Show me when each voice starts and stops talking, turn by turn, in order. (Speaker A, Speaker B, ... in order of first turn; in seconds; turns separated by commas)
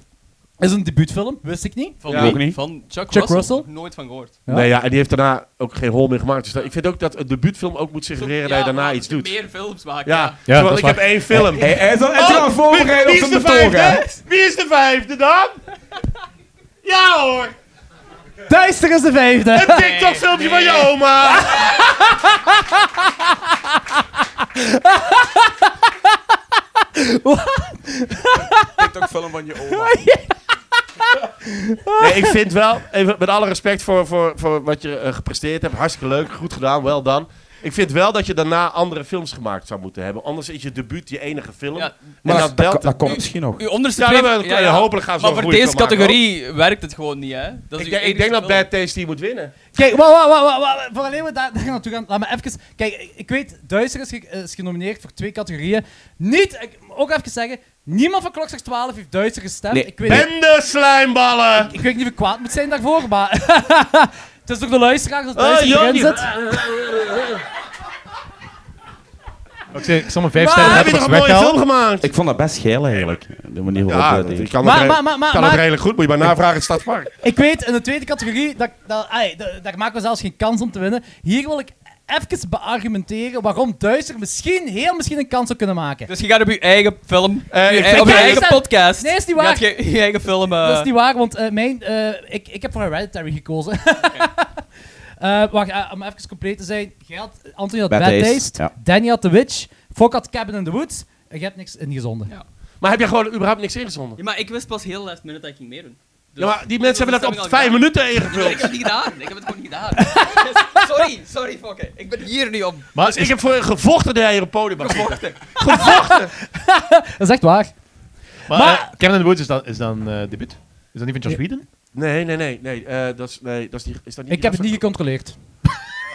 Speaker A: 0.6-2.0, Speaker B: 2.0-4.4, Speaker C: 2.1-2.4, Speaker D: 2.1-2.6, Speaker A: 3.1-3.7, Speaker C: 4.5-9.3, Speaker B: 8.2-10.4, Speaker C: 10.1-15.6, Speaker E: 10.5-11.1, Speaker D: 11.3-14.0, Speaker C: 16.8-17.5, Speaker A: 18.5-19.9, Speaker C: 19.5-21.6, Speaker B: 19.7-20.9, Speaker A: 21.6-23.5, Speaker A: 24.4-25.6, Speaker A: 27.0-28.7, Speaker D: 28.8-30.0, Speaker A: 29.7-30.3, Speaker A: 31.6-32.3, Speaker C: 32.0-43.0, Speaker B: 41.8-48.7, Speaker D: 42.2-43.6, Speaker C: 44.0-46.2, Speaker C: 47.8-49.5, Speaker A: 49.7-60.3, Speaker D: 59.7-60.3, Speaker C: 60.0-61.7, Speaker A: 61.6-66.3, Speaker C: 65.4-67.4, Speaker E: 69.7-71.6, Speaker A: 70.4-70.9, Speaker C: 70.5-72.1, Speaker D: 72.0-74.5, Speaker C: 73.8-77.1, Speaker A: 74.6-75.6, Speaker A: 77.2-86.1, Speaker B: 86.1-90.9, Speaker C: 87.5-88.5, Speaker A: 87.9-89.7, Speaker A: 90.5-94.7, Speaker A: 95.2-102.3, Speaker D: 97.9-98.7, Speaker C: 102.8-104.2, Speaker B: 104.2-112.9, Speaker C: 106.4-108.7, Speaker A: 110.0-110.8, Speaker E: 113.0-113.3, Speaker C: 113.0-116.3, Speaker B: 114.8-115.6, Speaker A: 116.5-117.7, Speaker E: 118.5-121.7, Speaker A: 118.5-118.9, Speaker C: 121.9-124.8, Speaker A: 124.3-125.4